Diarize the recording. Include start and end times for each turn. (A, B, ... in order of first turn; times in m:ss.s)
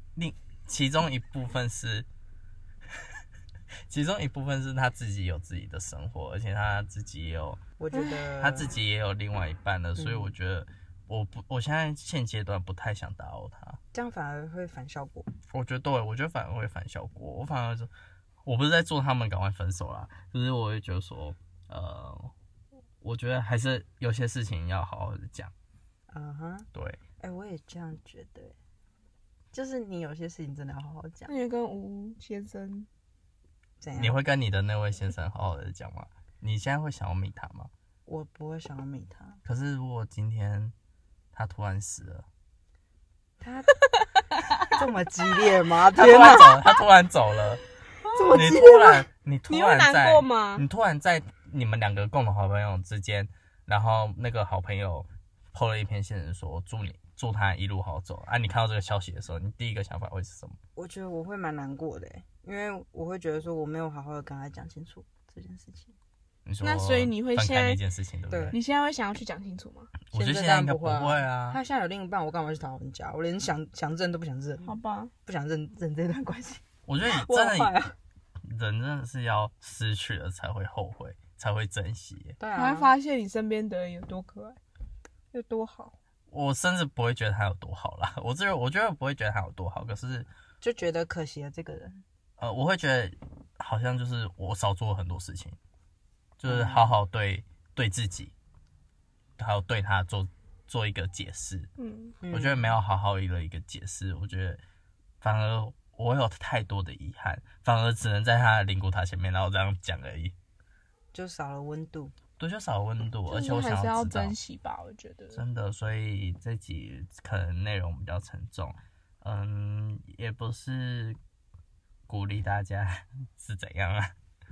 0:00.2-0:02.1 A
0:03.9-0:13.8 A
0:07.8-0:08.7 B
0:10.0-0:10.3 B
0:13.9-0:15.3 B
0:15.5-0:17.9 A
0:18.4-0:22.3 A
0:23.0-0:25.5 A
0:26.1-0:26.7 B
0:27.2-0:28.5 B
0:29.5-0:31.3 B
0:31.3-0:32.9 C
0:33.8-0:34.2 B
0:34.0-0:37.7 A
0:38.0-0:39.4 B
0:39.4-0:40.7 A
0:41.3-0:42.2 A
0:43.4-0:43.8 B
0:44.7-0:46.6 B
0:45.9-0:47.6 A
0:48.0-0:48.6 C
0:48.1-0:49.0 B
0:48.3-1:00.6 A
0:49.5-0:50.6 C
1:00.8-1:05.9 B
1:06.4-1:08.6 A
1:06.6-1:07.8 C
1:08.3-1:08.6 B
1:08.5-1:09.9 C
1:10.1-1:11.6 A
1:10.1-1:14.7 B
1:14.6-1:15.1 C
1:15.2-1:18.0 B
1:16.9-1:17.7 A
1:18.4-1:22.4 A
1:22.4-1:22.9 B
1:22.5-1:24.6 C
1:25.3-1:26.0 C
1:26.3-1:30.3 A
1:30.6-1:32.0 B
1:32.4-1:35.6 A
1:36.4-1:38.3 A
1:36.4-1:37.0 B
1:39.4-1:41.7 A
1:41.8-1:42.2 C
1:42.2-1:42.8 B
1:42.3-1:44.6 A
1:45.2-1:50.3 A
1:51.1-1:52.1 B
1:52.4-1:54.4 A
1:53.3-1:55.4 C
1:55.3-2:01.2 A
2:02.1-2:04.1 A